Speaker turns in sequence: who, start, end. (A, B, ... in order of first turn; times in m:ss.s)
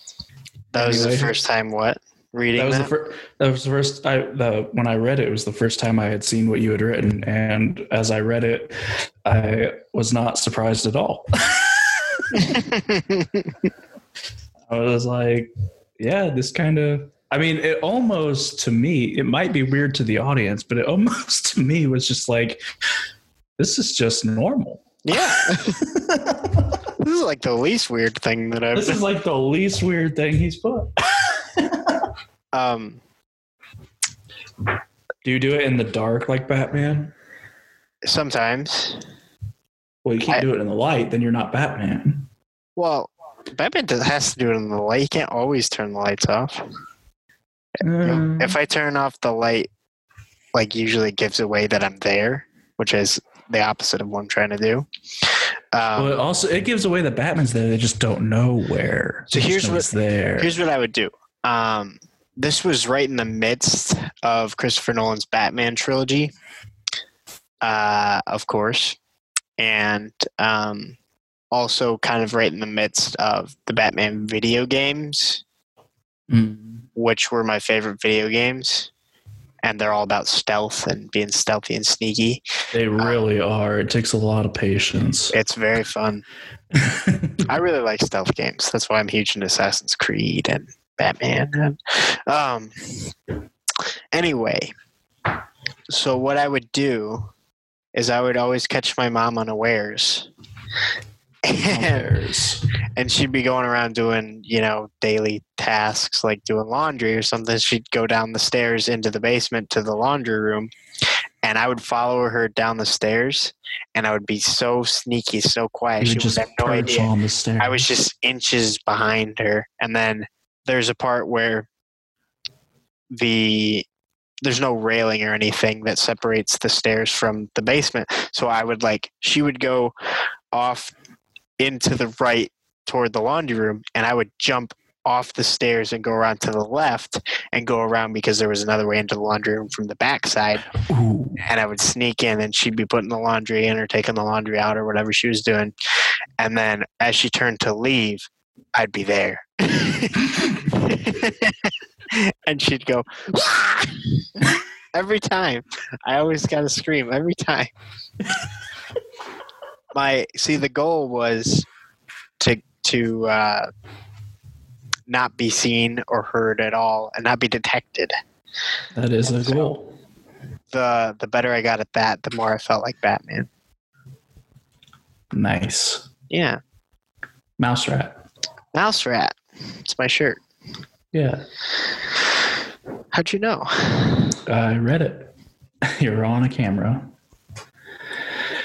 0:00.7-0:02.9 A
0:00.7-0:01.3 B
0:02.6-0:12.7 B
0:12.3-0:13.5 A
0:14.7-0:22.6 B
0:23.6-0:24.8 B
0:25.0-0:25.8 A
0:25.4-0:26.8 B
0:27.0-0:29.0 A
0:28.7-0:32.1 B
0:32.5-0:33.0 A
0:35.2-0:37.1 B
0:38.0-0:39.0 A
0:40.0-0:42.3 B
0:42.8-0:46.6 A
0:47.8-0:48.6 B
0:48.0-0:49.7 A
0:50.5-0:54.9 A
0:55.7-0:56.2 A
0:56.0-1:00.5 B
0:59.3-1:06.3 A
1:07.6-1:09.0 A
1:09.6-1:11.0 A
1:11.5-1:15.4 A
1:16.3-1:16.9 B
1:17.0-1:18.9 A
1:19.6-1:22.4 A
1:22.7-1:25.3 B
1:25.3-1:26.2 A
1:26.7-1:27.4 B
1:27.5-1:33.1 A
1:34.1-1:34.7 A
1:35.9-1:37.3 A
1:37.9-1:40.3 A
1:41.4-1:42.1 A
1:41.6-1:42.6 B
1:43.0-1:50.7 A
1:51.4-2:01.7 A
1:56.0-1:57.8 B
2:03.1-2:03.8 A
2:04.4-2:09.9 A
2:10.5-2:10.9 A
2:11.6-2:20.7 A
2:20.8-2:21.4 B
2:21.4-2:25.7 A
2:26.4-2:37.7 A
2:39.9-2:41.7 A
2:42.4-2:43.7 A
2:45.1-2:48.1 A
2:48.9-2:49.9 B
2:49.2-2:49.7 A
2:50.7-2:53.5 A
2:55.3-2:56.1 B
2:56.3-2:56.6 A
2:57.6-2:58.2 B
2:58.7-3:00.4 A
3:01.1-3:01.4 B
3:03.1-3:04.4 A
3:04.5-3:05.3 B
3:05.8-3:07.1 B